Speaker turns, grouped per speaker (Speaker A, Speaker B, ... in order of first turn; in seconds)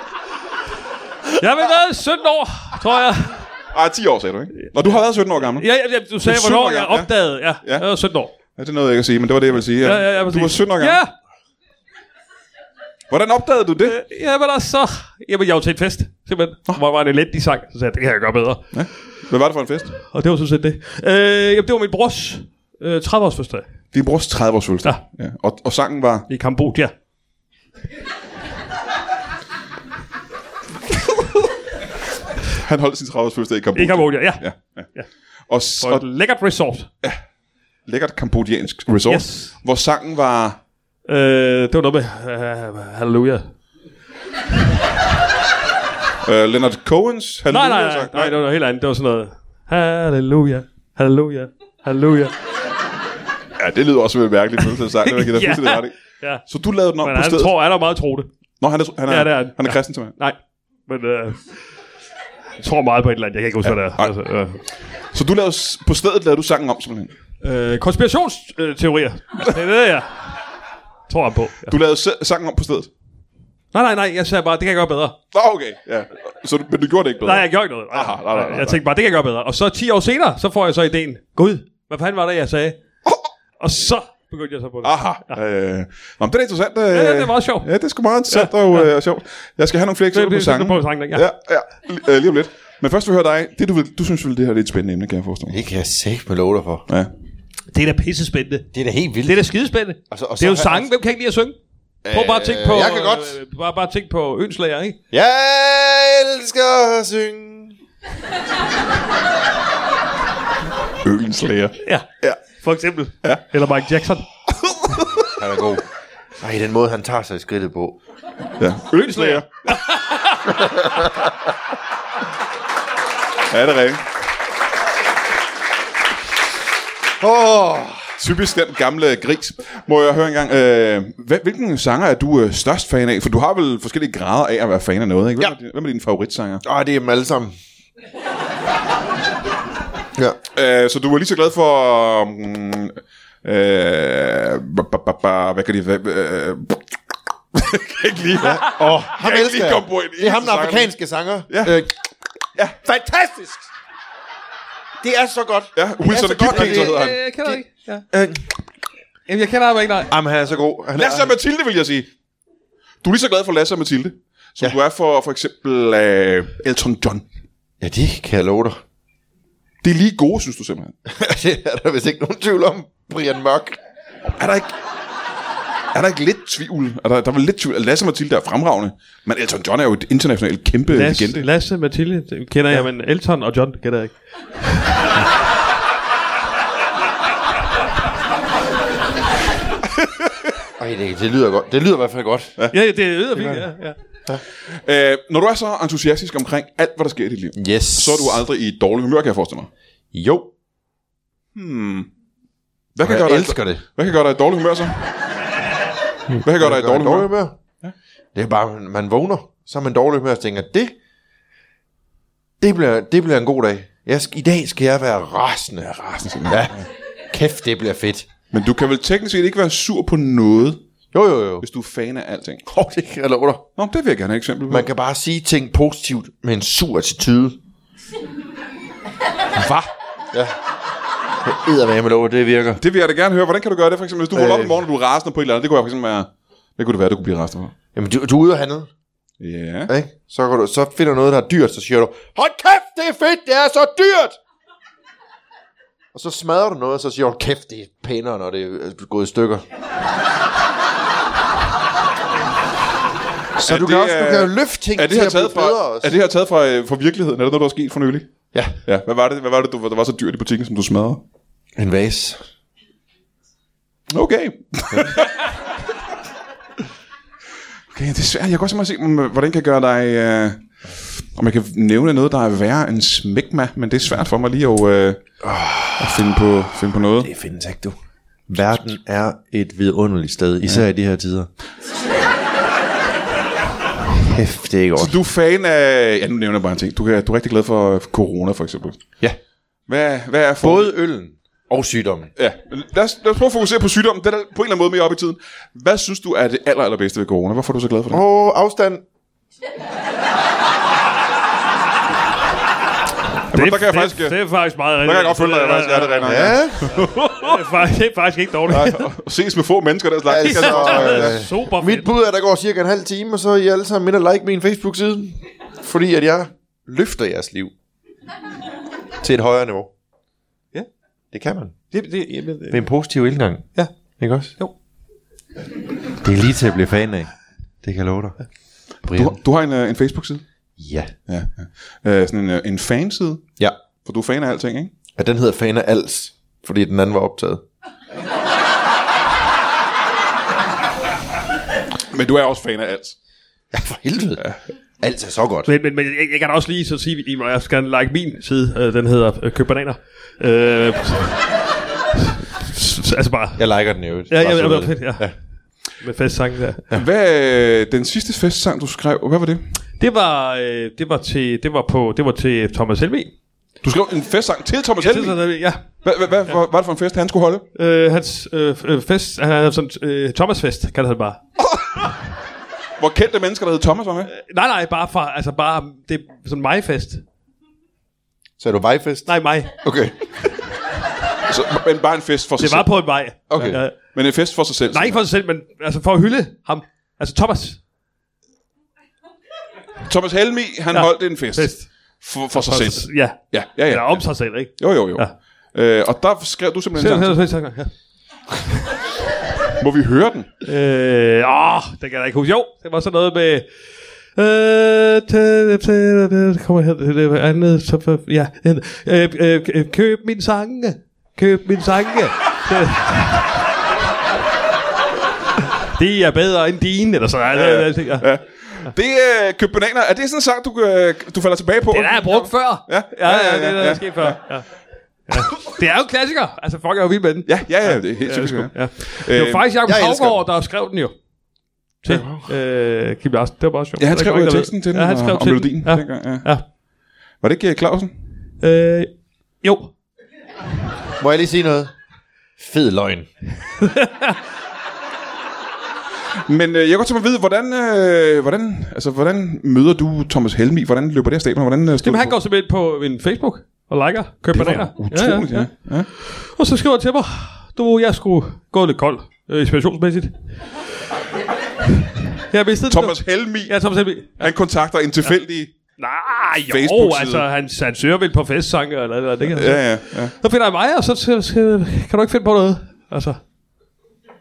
Speaker A: 1.3-3.5, 4.9-8.3, 9.8-11.1, 13.8-18.7, 20.0-23.6, 26.3-26.9, 33.8-34.4, 35.8-36.9, 39.1-39.5, 41.0-43.5, 47.5-52.3, 55.0-56.4, 57.0-58.3, 59.1-61.6, 62.6-64.6, 67.4-70.4, 71.1-71.7, 73.7-75.2, 77.2-82.8, 83.6-85.4, 86.9-87.7, 88.3-88.9, 90.1-91.3, 97.7-98.7, 99.2-101.6, 102.1-105.0, 111.8-114.2, 119.0-121.0, 156.4-158.1, 159.3-160.1, 180.9-185.1, 192.7-193.9, 303.5-309.1, 310.4-312.1, 321.9-322.9, 345.7-351.4, 352.1-353.6, 354.3-355.3, 356.0-356.9, 360.0-363.3, 365.0-365.8, 367.7-371.4, 374.3-377.2, 379.3-379.7, 382.6-383.9, 384.9-387.8, 390.9-391.9, 392.5-395.3, 397.0-397.9, 400.6-403.7, 404.4-413.6, 415.9-418.3, 421.9-424.7, 425.3-431.1, 432.0-436.6, 438.6-439.9, 443.8-444.4, 452.0-460.8, 462.4-464.5, 466.0-473.4
Speaker B: 3.7-5.7, 6.2-7.1, 8.5-11.0, 13.1-14.0, 18.7-19.9, 23.9-26.3, 32.5-34.9, 35.5-36.0, 37.9-40.6, 46.2-48.4, 53.6-55.9, 56.5-57.5, 58.6-60.1, 63.6-64.1, 65.1-67.1, 71.7-72.9, 75.3-78.8, 84.8-95.6, 111.0-112.4, 114.6-115.3, 118.6-119.5, 123.5-124.0, 128.2-136.6, 140.5-146.8, 147.5-150.9, 151.5-151.8, 155.7-157.2, 160.9-162.1, 163.0-167.2, 169.8-170.9, 174.3-174.7, 175.9-181.4, 194.7-199.7, 201.5-202.1, 202.9-205.0, 206.4-207.9, 216.2-216.8, 218.5-220.8, 221.6-222.6, 223.8-224.9, 229.5-229.9, 232.8-237.7, 239.4-239.9, 253.6-258.3, 258.8-261.2, 264.1-265.5, 267.9-270.6, 271.2-275.2, 276.0-277.3, 285.0-289.0, 289.9-290.9, 292.4-298.2, 303.5-304.4, 305.0-307.3, 308.7-311.4, 329.1-330.4, 331.3-333.4, 334.0-334.9, 342.1-343.1, 356.9-359.7, 363.8-365.4, 366.0-367.6, 371.7-372.0, 373.0-374.3, 381.4-382.9, 384.1-385.2, 390.1-397.4, 399.8-400.5, 417.5-424.4, 427.4-429.6, 434.0-436.5, 437.4-438.1, 446.5-452.4, 454.5-456.1, 462.9-463.7, 464.4-465.7, 466.7-467.4, 469.5-470.3
Speaker C: 95.5-96.8, 98.7-99.5, 100.1-100.9, 102.0-103.4, 105.1-107.8, 115.2-115.8, 116.4-118.0, 120.5-121.3, 127.2-128.1, 136.6-137.5, 148.4-151.9, 152.8-153.7, 155.0-157.6, 158.1-158.4, 160.1-161.3, 167.8-168.8, 171.0-173.8, 190.8-192.5, 193.3-193.7, 197.5-198.4, 200.1-200.5, 203.0-203.8, 206.5-207.6, 208.3-210.9, 212.6-218.3, 221.1-221.6, 222.7-223.6, 224.7-227.6, 231.4-232.8, 234.3-234.8, 237.9-238.9, 239.9-244.4, 246.1-249.6, 253.6-256.1, 261.8-262.4, 275.4-276.2, 277.2-281.5, 284.1-285.2, 290.6-292.3, 298.1-299.0, 306.2-306.9, 310.2-317.7, 319.2-319.9, 321.3-321.8, 322.7-323.6, 324.2-324.5, 326.2-327.3, 327.8-328.4, 329.0-329.4, 330.8-331.1, 335.1-337.6, 343.7-344.4, 345.0-345.7, 353.6-355.3, 378.6-380.4, 383.5-383.8, 429.8-430.4, 432.1-432.5, 441.2-441.9, 442.6-443.3